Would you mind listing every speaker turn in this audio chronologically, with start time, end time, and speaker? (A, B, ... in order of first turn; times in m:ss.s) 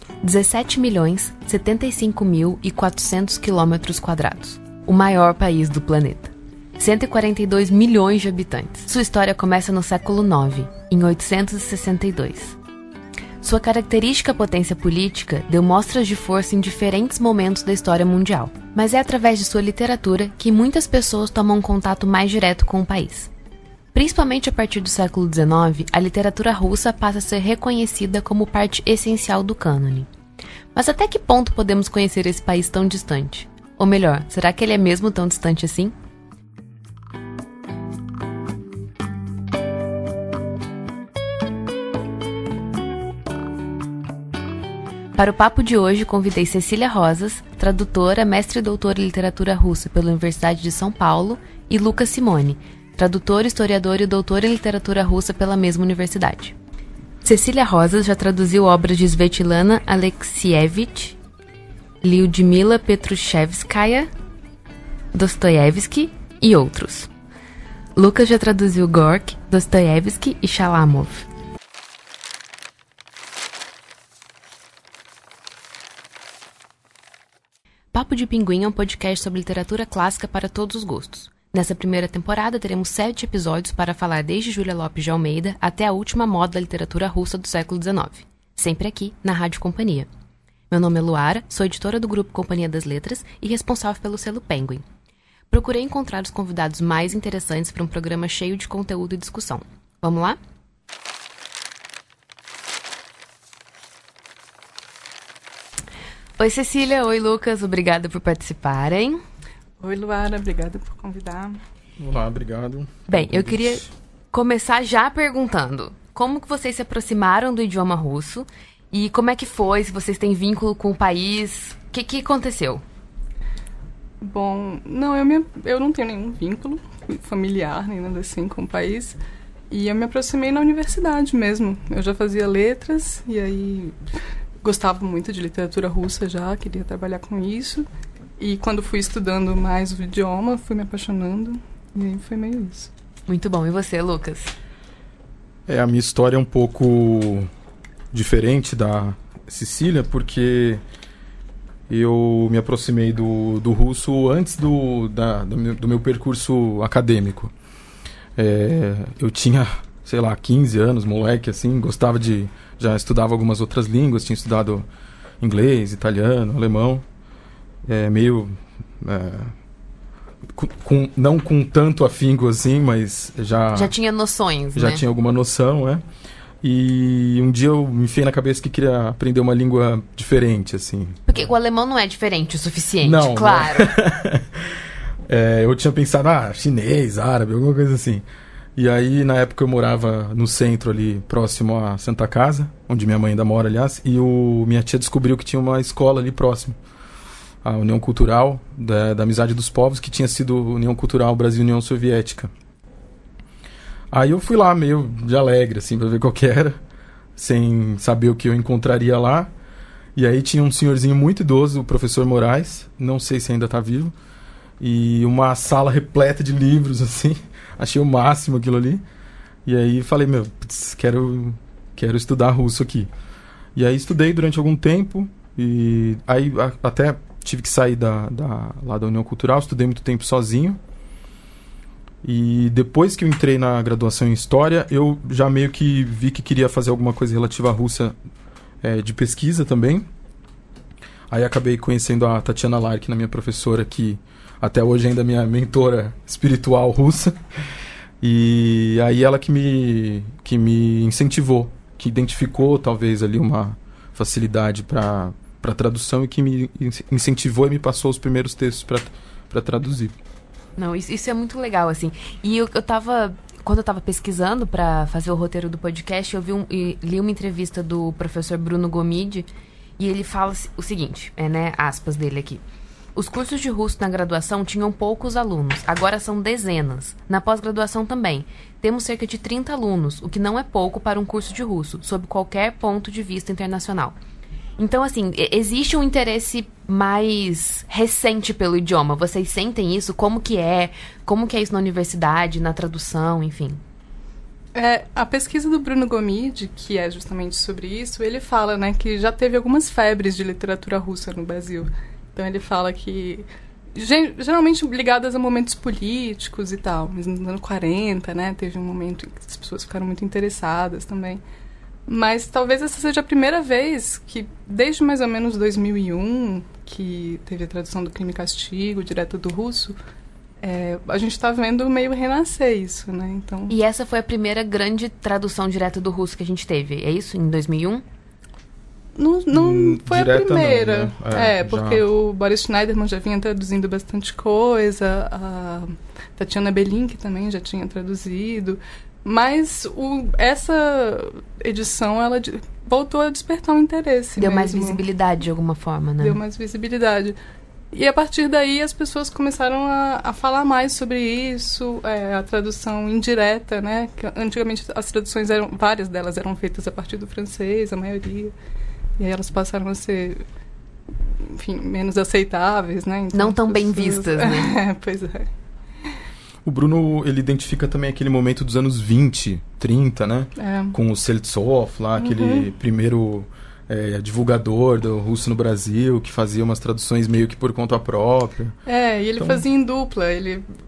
0:00.2-0:12.6 A
0:13.4-0:23.3 A
0:23.9-0:30.1 A
0:30.8-0:35.9 A
0:45.2-0:56.6 A
0:57.2-1:01.2 A
1:02.0-1:04.1 A
1:05.1-1:07.1 A
1:08.0-1:11.3 A
1:17.9-1:30.1 A
1:30.7-1:34.8 A
1:35.5-1:40.4 A
1:46.4-1:49.2 A
1:49.8-1:51.6 B
1:52.0-1:53.9 C
1:53.1-2:02.8 A
2:04.2-2:09.2 B
2:09.7-2:14.0 B
2:14.6-2:17.9 B
2:18.4-2:22.9 B
2:23.3-2:24.5 A
2:25.7-2:27.5 C
2:28.1-2:30.8 C
2:31.9-2:37.5 C
2:38.4-2:44.9 C
2:45.4-2:47.0 C
2:47.8-2:49.5 C
2:50.5-2:53.9 C
2:53.7-2:55.0 A
2:54.8-2:56.0 C
2:56.6-3:01.4 C
3:01.3-3:03.9 A
3:03.0-3:08.2 C
3:08.8-3:16.8 C
3:17.6-3:22.5 C
3:24.1-3:26.8 C
3:27.4-3:29.5 C
3:30.2-3:34.1 C
3:34.8-3:39.0 C
3:39.6-3:43.1 C
3:43.8-3:50.8 C
3:52.2-3:58.2 C
3:58.8-4:00.0 C
4:01.3-4:07.4 C
4:08.2-4:20.2 C
4:20.8-4:29.5 A
4:30.0-4:32.6 A
4:33.2-4:44.2 A
4:44.8-4:53.8 A
4:54.8-5:11.4 B
5:12.1-5:20.0 B
5:20.6-5:23.7 B
5:23.7-5:28.0 A
5:29.2-5:45.0 B
5:29.5-5:32.0 C
5:44.4-5:46.4 A
5:46.2-5:47.4 B
5:47.9-5:58.5 B
5:59.2-6:00.4 B
6:01.4-6:05.5 B
6:03.3-6:04.8 A
6:06.6-6:18.8 C
6:10.6-6:11.0 B
6:12.2-6:12.7 B
6:18.9-6:20.7 B
6:19.4-6:19.6 C